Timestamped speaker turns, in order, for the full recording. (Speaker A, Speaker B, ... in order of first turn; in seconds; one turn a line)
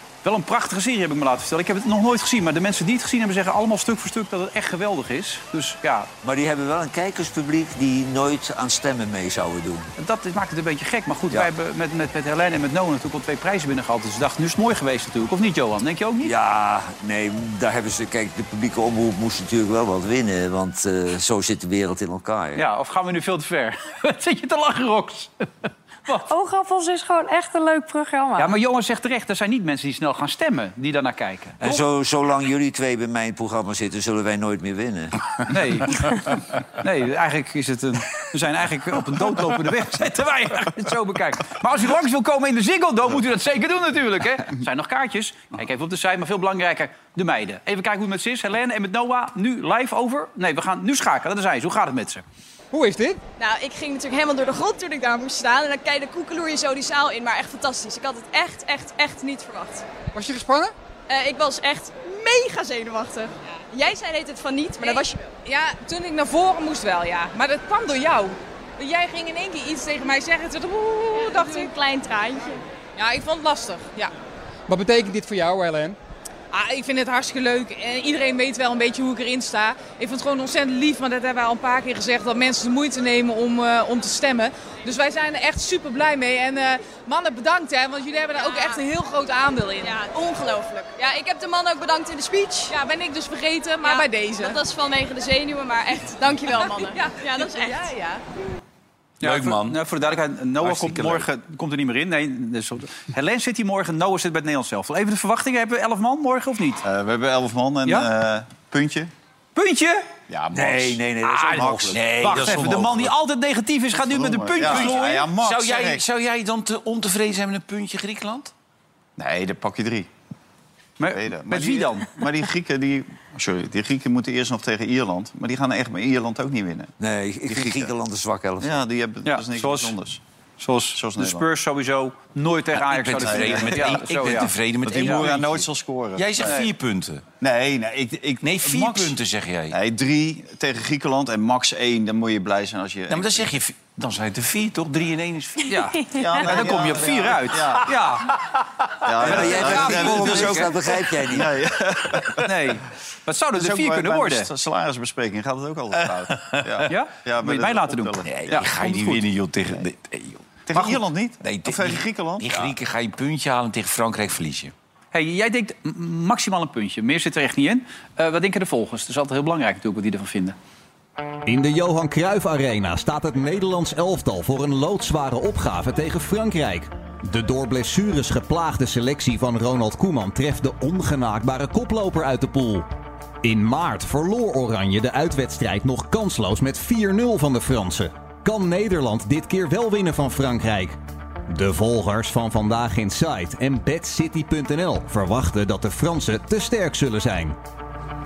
Speaker A: 0.2-6.1
Speaker B: 6.2-9.9
Speaker A: 10.0-16.3
Speaker B: 16.2-22.6
Speaker A: 22.6-25.4
Speaker C: 26.2-28.5
Speaker A: 28.4-31.8
Speaker B: 31.6-35.1
Speaker A: 35.5-52.2
Speaker D: 52.7-53.2
Speaker E: 53.4-59.8
Speaker D: 60.1-60.7
Speaker E: 61.1-65.3
Speaker F: 64.8-71.7
Speaker E: 71.1-72.6
Speaker F: 73.0-74.1
Speaker D: 74.7-76.0
Speaker F: 76.5-90.1
Speaker E: 88.4-88.8
Speaker E: 89.8-92.7
Speaker F: 92.7-94.7
Speaker E: 93.8-98.2
Speaker F: 96.5-98.0
Speaker A: 99.2-106.8
Speaker G: 99.2-99.8
Speaker G: 100.6-101.3
Speaker H: 106.8-109.1
Speaker A: 109.5-110.0
Speaker H: 110.3-110.9
Speaker B: 110.5-112.0
Speaker G: 111.2-113.1
Speaker H: 111.6-112.0
Speaker A: 112.2-115.3
Speaker H: 114.1-116.0
Speaker G: 114.6-118.5
Speaker H: 119.2-120.1
Speaker A: 121.0-122.2
Speaker H: 121.1-126.9
Speaker B: 127.0-128.8
Speaker H: 127.5-127.9
Speaker H: 128.6-130.2
Speaker A: 129.2-129.9
Speaker A: 130.6-135.3
Speaker H: 130.9-131.4
Speaker G: 132.7-137.2
Speaker H: 133.2-134.0
Speaker H: 134.8-136.6
Speaker H: 137.4-139.1
Speaker G: 138.4-139.8
Speaker H: 139.7-143.5
Speaker G: 143.1-145.7
Speaker A: 145.7-148.3
Speaker H: 146.1-147.9
Speaker G: 146.6-146.8
Speaker H: 149.0-152.5
Speaker B: 149.2-151.5
Speaker A: 149.2-150.7
Speaker A: 152.4-154.5
Speaker H: 153.5-159.2
Speaker G: 156.1-156.9
Speaker A: 156.9-158.8
Speaker G: 158.2-164.7
Speaker H: 160.7-162.7
Speaker A: 165.1-170.6
Speaker I: 171.4-182.9
Speaker I: 183.4-191.0
Speaker I: 191.5-197.6